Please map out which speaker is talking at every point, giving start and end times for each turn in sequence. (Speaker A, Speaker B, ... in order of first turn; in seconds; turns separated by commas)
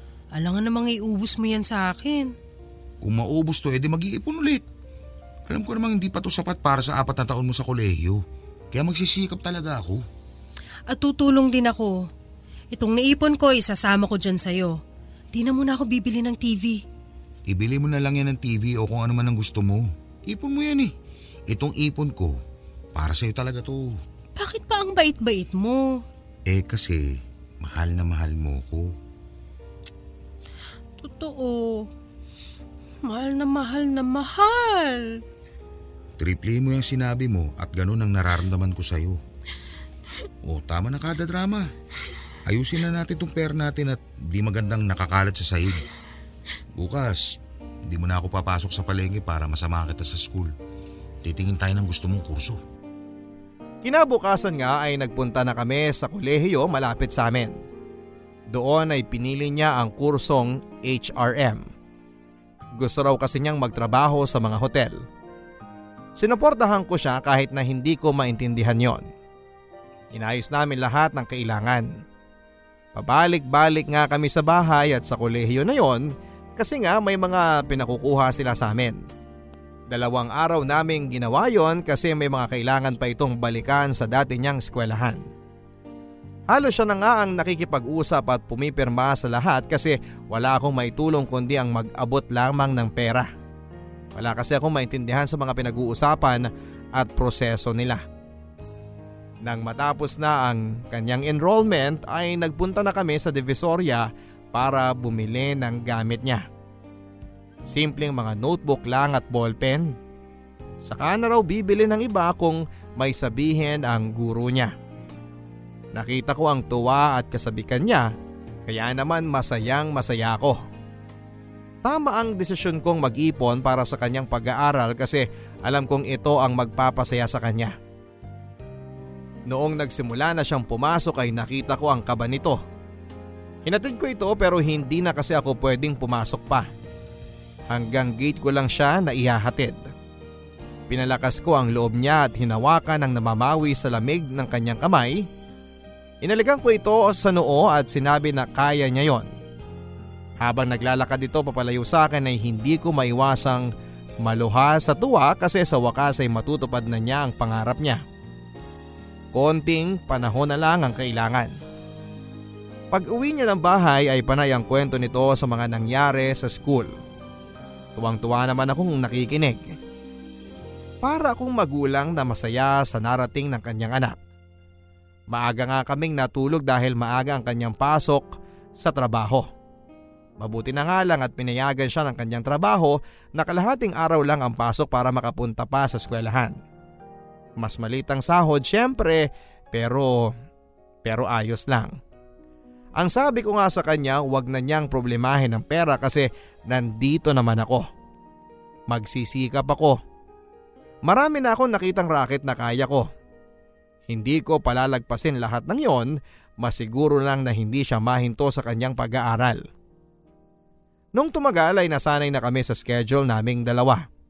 Speaker A: 0.3-2.3, Speaker B: 3.0-4.7, Speaker B: 5.5-10.0, Speaker A: 10.9-12.1, Speaker A: 12.7-14.8, Speaker A: 15.3-16.8, Speaker B: 17.5-20.9, Speaker B: 21.5-22.4, Speaker B: 22.9-24.0, Speaker A: 24.4-26.0, Speaker B: 26.5-28.9, Speaker A: 31.0-31.9, Speaker A: 33.0-35.2, Speaker B: 36.2-39.2, Speaker B: 40.4-41.7, Speaker B: 42.5-45.9, Speaker B: 46.8-50.5, Speaker B: 51.2-52.6, Speaker C: 53.8-57.6, Speaker C: 58.5-61.7, Speaker C: 62.8-65.0, Speaker C: 66.2-69.1, Speaker C: 70.1-72.0, Speaker C: 73.0-79.0, Speaker C: 79.9-85.2, Speaker C: 86.5-93.3, Speaker C: 94.2-98.0, Speaker C: 99.4-106.5, Speaker C: 107.7-110.0, Speaker C: 110.8-114.7, Speaker C: 115.9-118.1, Speaker C: 118.7-120.6, Speaker C: 121.8-127.8, Speaker C: 129.5-132.6, Speaker C: 133.7-136.7, Speaker C: 137.7-139.8, Speaker C: 140.9-145.3, Speaker C: 146.2-149.3, Speaker C: 150.4-153.7, Speaker C: 154.2-158.0, Speaker C: 159.3-161.6, Speaker C: 162.9-166.9, Speaker C: 168.0-169.8, Speaker C: 171.0-174.2, Speaker C: 175.3-179.5, Speaker C: 180.4-186.6, Speaker C: 187.6-190.3, Speaker C: 191.0-192.0, Speaker C: 193.0-197.9, Speaker C: 198.9-200.0, Speaker C: 201.1-203.1, Speaker C: 204.1-209.6, Speaker C: 211.2-214.1